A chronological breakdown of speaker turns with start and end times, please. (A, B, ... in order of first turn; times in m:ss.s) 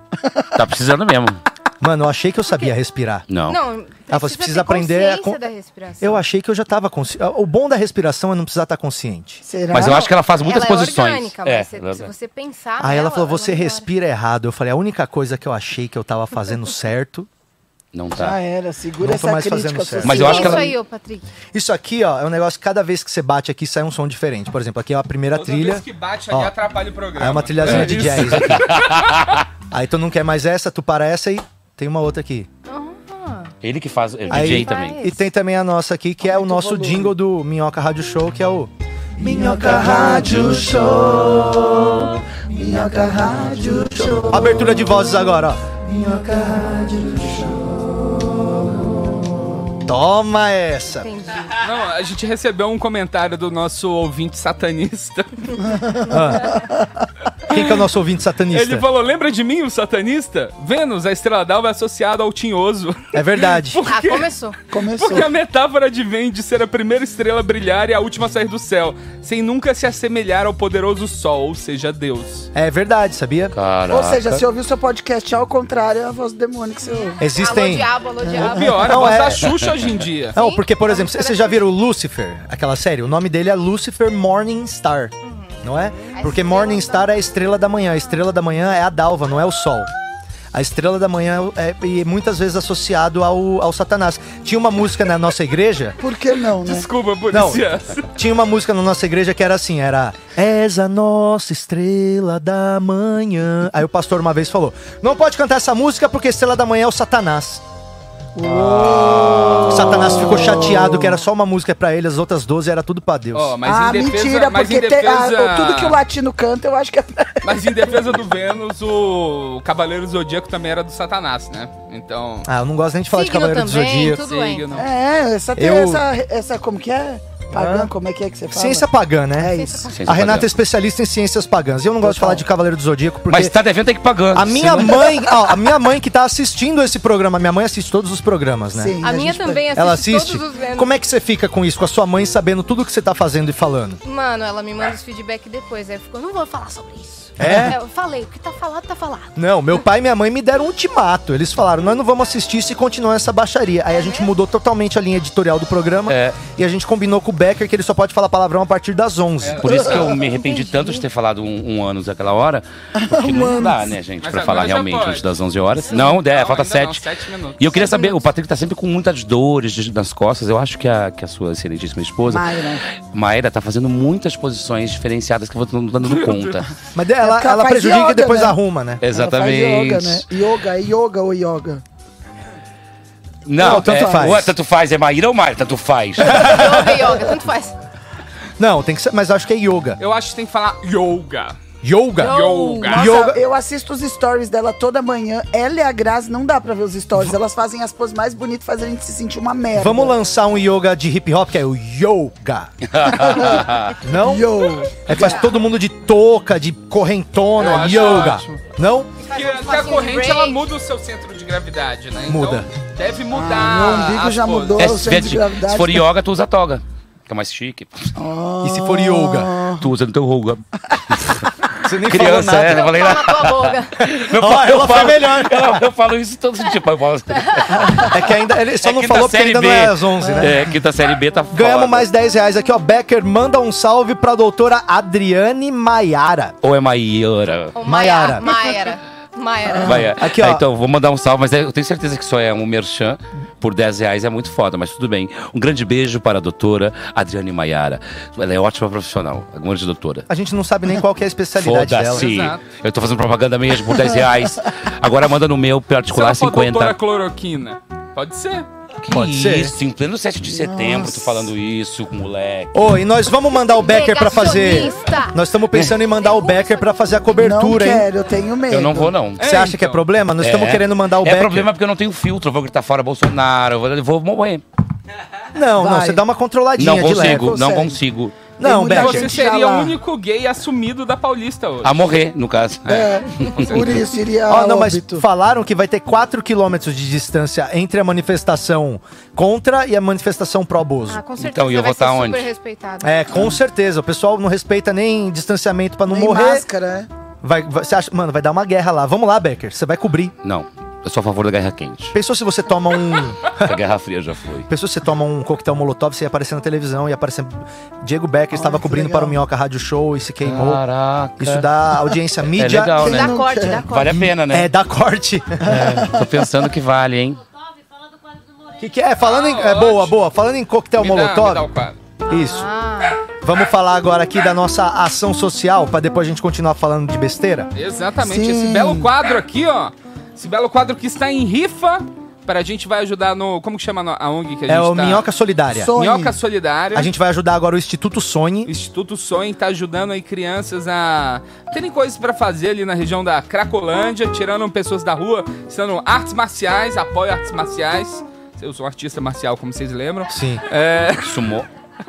0:00.2-0:00.5 A
0:00.6-0:01.4 B
0:01.8-0:03.3 C
0:03.3-0:03.6 B
0:03.4-0:06.2 D
0:04.1-0:05.4 C
0:06.0-0:09.4 C
0:09.4-0:10.1 A
0:09.7-0:12.1 B
0:09.8-0:13.9 D
0:12.8-0:17.3 C
0:17.9-0:18.4 B
0:18.2-0:20.7 A
0:19.0-0:20.5 C
0:20.0-0:20.7 B
0:20.0-0:21.3 D
0:21.5-0:26.5 C
0:25.3-0:29.0 E
0:27.2-0:28.8 C
0:27.6-0:29.4 B
0:29.7-0:32.5 C
0:32.7-0:33.5 D
0:33.6-0:35.0 B
0:34.3-0:35.2 D
0:34.3-0:42.2 C
0:36.2-0:37.2 A
0:39.2-0:40.8 A
0:42.5-0:44.6 A
0:43.7-0:51.1 C
0:51.0-0:51.6 D
0:51.6-0:55.7 E
0:56.1-0:56.6 C
0:57.5-0:58.8 C
0:57.5-0:57.8 E
0:58.5-1:04.3 E
1:03.1-1:03.8 C
1:03.9-1:04.6 D
1:04.7-1:05.3 A
1:04.9-1:12.5 E
1:12.5-1:13.5 C
1:13.5-1:14.4 B
1:13.9-1:17.2 A
1:16.8-1:19.1 D
1:17.2-1:17.9 C
1:18.2-1:18.8 A
1:18.4-1:20.4 E
1:18.8-1:19.6 C
1:19.4-1:19.7 B
1:20.4-1:21.7 D
1:20.4-1:29.9 C
1:25.2-1:27.2 D
1:30.5-1:36.0 C
1:36.0-1:36.9 A
1:36.6-1:38.1 E
1:37.3-1:47.6 C
1:48.4-1:51.2 A
1:48.5-1:49.1 C
1:49.3-1:49.7 B
1:49.6-1:53.6 C
1:53.3-1:56.0 E
1:53.6-1:57.9 A
1:57.4-2:02.5 E
2:02.5-2:04.2 C
2:03.1-2:04.8 D
2:04.2-2:04.9 E
2:04.7-2:09.9 A
2:05.6-2:06.0 C
2:07.5-2:07.9 C
2:08.5-2:13.6 C
2:09.5-2:10.0 D
2:09.9-2:10.5 B
2:12.0-2:12.4 A
2:13.3-2:15.1 B
2:14.3-2:19.0 C
2:18.7-2:19.7 A
2:19.0-2:20.9 D
2:19.7-2:24.0 C
2:24.0-2:29.4 D
2:27.4-2:27.8 C
2:29.4-2:39.8 C
2:33.9-2:34.3 D
2:36.1-2:36.4 B
2:39.4-2:39.9 E
2:39.6-2:47.0 B
2:40.1-2:41.1 D
2:43.0-2:43.9 A
2:44.2-2:45.3 E
2:45.9-2:47.7 E
2:47.6-2:52.5 B
2:47.8-2:48.3 D
2:52.3-2:52.8 A
2:53.0-2:56.7 B
2:56.0-2:56.6 E
2:57.0-2:59.0 C
2:57.2-3:01.8 A
2:59.0-3:00.3 B
3:03.5-3:06.6 B
3:03.6-3:04.6 C
3:03.6-3:04.4 A
3:06.2-3:07.0 C
3:06.3-3:07.8 D
3:08.6-3:10.0 C
3:10.0-3:11.6 E
3:11.8-3:13.4 C
3:12.2-3:13.3 D
3:12.2-3:13.1 E
3:12.9-3:20.2 A
3:19.8-3:22.7 C
3:22.9-3:24.0 B
3:24.0-3:29.1 C
3:24.2-3:25.1 A
3:25.1-3:25.6 D
3:27.6-3:28.6 E
3:29.2-3:30.7 D
3:29.3-3:34.9 E
3:32.3-3:32.7 C
3:33.3-3:36.1 A
3:34.8-3:38.1 B
3:38.2-3:39.9 A
3:38.6-3:39.5 C
3:39.8-3:48.3 B
3:41.8-3:42.9 C
3:42.6-3:44.1 D
3:44.2-3:45.8 C
3:47.4-3:48.1 D
3:48.1-3:50.6 C
3:48.8-3:52.1 B
3:51.5-3:56.6 C
3:56.6-3:57.8 B
3:57.8-4:00.1 D
3:57.8-3:58.5 C
3:59.8-4:10.3 B
4:00.0-4:00.6 C
4:10.3-4:12.3 C
4:11.6-4:17.0 B
4:12.1-4:12.6 E
4:16.1-4:18.7 E
4:19.0-4:22.8 B
4:19.1-4:19.8 C
4:20.5-4:21.5 A
4:22.7-4:28.1 C
4:23.6-4:27.3 D
4:27.4-4:29.1 A
4:28.7-4:29.4 B
4:29.4-4:30.1 E
4:29.4-4:31.7 C
4:30.4-4:34.6 B
4:35.5-4:37.6 C
4:35.8-4:36.2 A
4:36.8-4:38.4 B
4:37.1-4:38.0 A
4:38.6-4:39.4 C
4:38.6-4:40.0 A
4:38.9-4:42.1 E
4:41.8-4:44.1 B
4:42.9-4:45.2 A
4:44.5-4:51.2 C
4:51.1-4:53.2 D
4:51.4-4:52.5 B
4:53.0-4:56.6 C
4:56.1-4:57.1 A
4:57.4-5:00.3 C
5:00.4-5:02.2 B
5:02.1-5:03.8 C
5:03.6-5:04.7 B
5:04.7-5:10.8 C
5:08.5-5:09.4 A
5:10.4-5:11.7 B
5:11.4-5:13.1 C
5:12.5-5:14.7 B
5:13.0-5:14.3 D
5:13.0-5:13.8 A
5:14.1-5:15.9 C
5:15.7-5:17.4 B
5:15.7-5:16.2 A
5:18.8-5:21.7 C
5:19.2-5:20.2 E
5:21.0-5:22.0 E
5:22.3-5:22.7 C
5:22.3-5:23.2 D
5:23.3-5:27.7 C
5:27.8-5:35.3 E
5:28.2-5:29.1 A
5:34.7-5:35.9 C
5:35.7-5:36.4 A
5:36.0-5:37.1 E
5:37.0-5:38.7 C
5:38.6-5:51.5 E
5:50.3-5:50.6 C
5:51.2-5:51.7 B